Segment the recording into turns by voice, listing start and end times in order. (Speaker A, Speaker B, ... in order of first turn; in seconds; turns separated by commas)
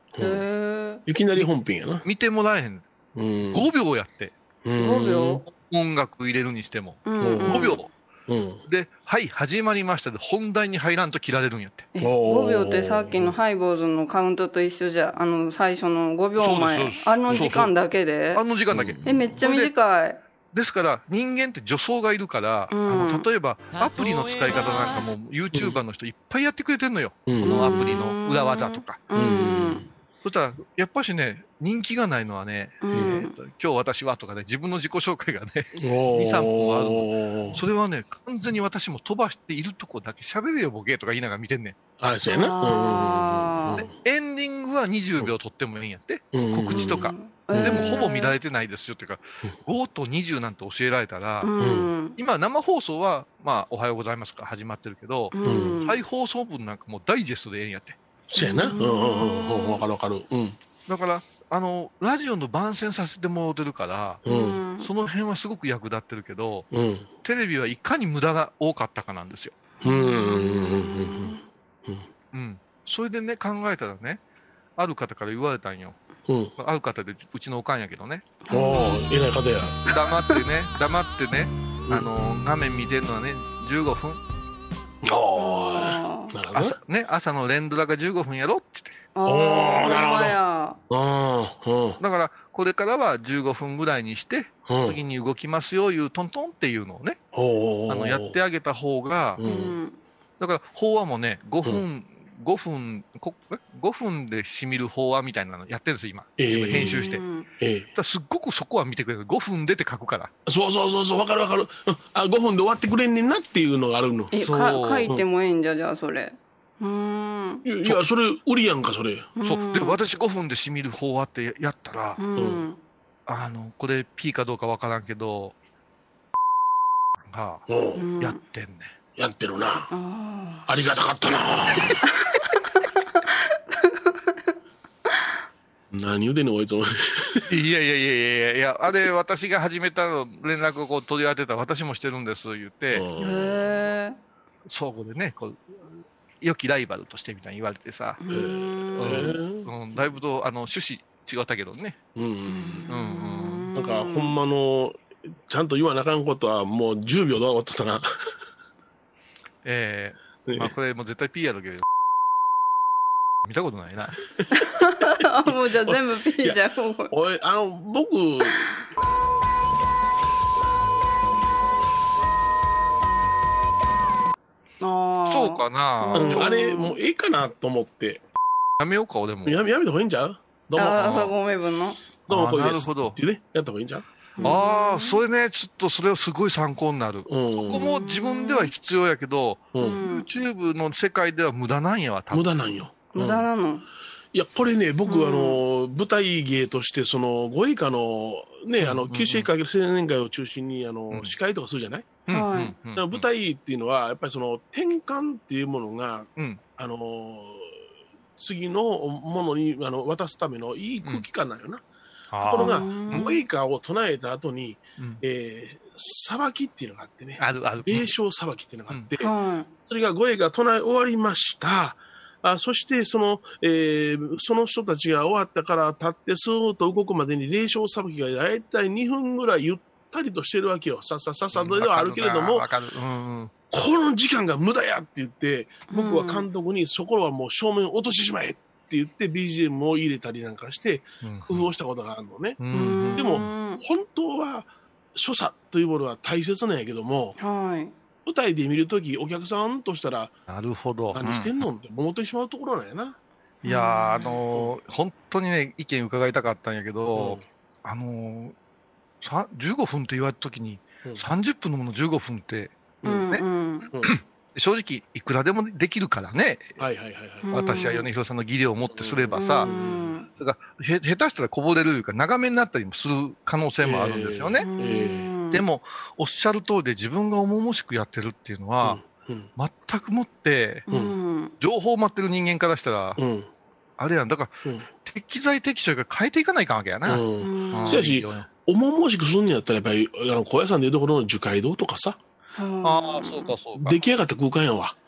Speaker A: 0.1-0.4, Speaker B: 0.2-1.0, Speaker A: 1.1-2.0, Speaker C: 2.0-2.8, Speaker A: 3.1-3.7, Speaker C: 3.5-4.3, Speaker A: 4.6-5.4, Speaker B: 4.7-5.4, Speaker C: 5.5-7.9, Speaker B: 7.0-7.8, Speaker A: 7.2-7.8, Speaker A: 8.3-8.6, Speaker C: 8.7-11.9, Speaker B: 11.9-18.4, Speaker A: 12.0-13.3, Speaker C: 16.4-17.7, Speaker C: 18.3-19.7, Speaker A: 18.7-19.3, Speaker B: 19.1-20.2, Speaker C: 20.5-29.0, Speaker B: 22.7-23.3, Speaker A: 27.3-28.0, Speaker B: 27.4-29.9, Speaker A: 29.1-29.9, Speaker C: 30.2-41.8, Speaker B: 32.8-33.3, Speaker A: 32.9-33.2, Speaker A: 35.8-37.6, Speaker A: 42.0-43.9, Speaker B: 42.3-43.8, Speaker C: 43.8-51.5, Speaker A: 46.3-48.0, Speaker B: 46.7-48.3, Speaker B: 51.4-52.2, Speaker A: 51.6-51.9, Speaker C: 52.1-58.0, Speaker B: 55.3-56.0, Speaker A: 55.4-55.8, Speaker A: 58.3-60.6, Speaker B: 58.4-59.2, Speaker C: 60.9-64.2, Speaker A: 64.2-64.6, Speaker B: 64.2-64.9, Speaker C: 64.8-66.7, Speaker A: 66.7-67.1, Speaker C: 67.2-69.5, Speaker A: 69.8-72.1, Speaker B: 69.8-71.4, Speaker C: 72.3-74.2, Speaker C: 74.8-76.0, Speaker A: 76.3-76.5, Speaker C: 76.6-78.4, Speaker B: 78.4-79.0, Speaker A: 78.5-79.8, Speaker C: 79.9-84.2, Speaker B: 79.9-80.4, Speaker A: 85.0-86.8, Speaker B: 85.3-86.3, Speaker C: 86.5-89.0, Speaker B: 89.1-90.8, Speaker A: 89.2-90.4, Speaker A: 90.9-92.0, Speaker C: 92.0-97.2, Speaker A: 94.7-95.0, Speaker A: 97.3-98.3, Speaker C: 97.9-99.4, Speaker A: 99.4-99.8, Speaker B: 99.4-100.0, Speaker C: 100.4-107.2, Speaker A: 106.4-107.1, Speaker B: 106.8-107.5, Speaker A: 107.6-107.9, Speaker C: 107.9-110.3, Speaker A: 110.5-114.4, Speaker B: 114.3-117.6, Speaker C: 114.4-115.1, Speaker A: 117.6-119.3, Speaker B: 119.4-120.0, Speaker C: 119.4-122.2, Speaker B: 122.2-122.8, Speaker A: 122.3-122.6, Speaker C: 123.3-125.5, Speaker C: 127.2-127.6, Speaker A: 127.7-128.1, Speaker B: 128.0-128.4, Speaker C: 128.2-128.9, Speaker A: 129.2-129.9, Speaker B: 129.9-130.7, Speaker A: 130.7-132.0, Speaker B: 133.7-134.1, Speaker A: 135.9-137.5, Speaker C: 137.5-143.1, Speaker A: 142.9-143.6, Speaker B: 143.2-144.2, Speaker C: 144.7-145.9, Speaker C: 146.4-148.2, Speaker B: 148.2-149.3, Speaker A: 148.3-149.7, Speaker C: 149.0-152.0, Speaker A: 152.2-152.9, Speaker B: 152.5-154.3, Speaker C: 152.9-153.7, Speaker A: 153.7-158.1, Speaker C: 159.6-161.8, Speaker C: 163.4-164.2, Speaker B: 164.6-167.1, Speaker A: 165.8-166.6, Speaker A: 167.1-168.9, Speaker B: 174.8-177.0, Speaker C: 175.2-176.5, Speaker A: 176.1-178.2, Speaker C: 178.8-179.6, Speaker A: 179.4-181.3, Speaker B: 180.8-182.0, Speaker C: 180.9-181.3, Speaker C: 182.3-183.2, Speaker A: 182.3-184.6, Speaker B: 184.4-185.2, Speaker C: 184.4-192.5, Speaker A: 187.3-187.9, Speaker B: 187.7-188.7, Speaker A: 189.7-190.0, Speaker B: 189.8-190.3, Speaker A: 192.3-193.5, Speaker B: 193.1-193.8, Speaker A: 194.3-202.2, Speaker B: 195.1-195.6, Speaker C: 198.8-199.5, Speaker C: 202.3-203.2, Speaker B: 202.3-202.7, Speaker A: 202.9-207.7, Speaker A: 208.4-211.8, Speaker C: 212.3-213.4, Speaker A: 212.4-219.3, Speaker B: 212.6-213.3, Speaker C: 215.0-215.2, Speaker C: 217.4-218.1, Speaker B: 219.2-219.7, Speaker A: 219.8-232.6, Speaker C: 231.5-233.5, Speaker A: 233.7-242.6, Speaker B: 235.9-236.4, Speaker C: 241.2-241.7, Speaker C: 242.6-243.5, Speaker B: 242.7-243.8, Speaker A: 243.1-247.3, Speaker B: 247.4-247.9, Speaker A: 248.2-250.3, Speaker C: 250.5-251.6, Speaker A: 251.1-253.2, Speaker C: 253.6-258.6, Speaker B: 253.6-254.4, Speaker A: 257.1-257.4, Speaker C: 259.2-263.4, Speaker B: 263.0-263.9, Speaker C: 264.0-266.8, Speaker A: 266.8-267.8, Speaker B: 267.4-268.1, Speaker C: 267.5-269.7, Speaker A: 268.9-270.1, Speaker B: 269.3-270.3, Speaker C: 270.4-274.7, Speaker A: 273.8-275.3, Speaker B: 274.6-275.6, Speaker C: 275.5-279.0, Speaker A: 278.8-279.5, Speaker C: 279.6-280.9, Speaker B: 280.9-281.5, Speaker A: 280.9-281.1, Speaker C: 281.6-283.2, Speaker A: 283.2-283.5, Speaker C: 284.0-288.5, Speaker A: 287.0-292.2, Speaker B: 287.4-288.0, Speaker B: 292.5-293.5, Speaker C: 292.8-294.0, Speaker A: 293.8-295.0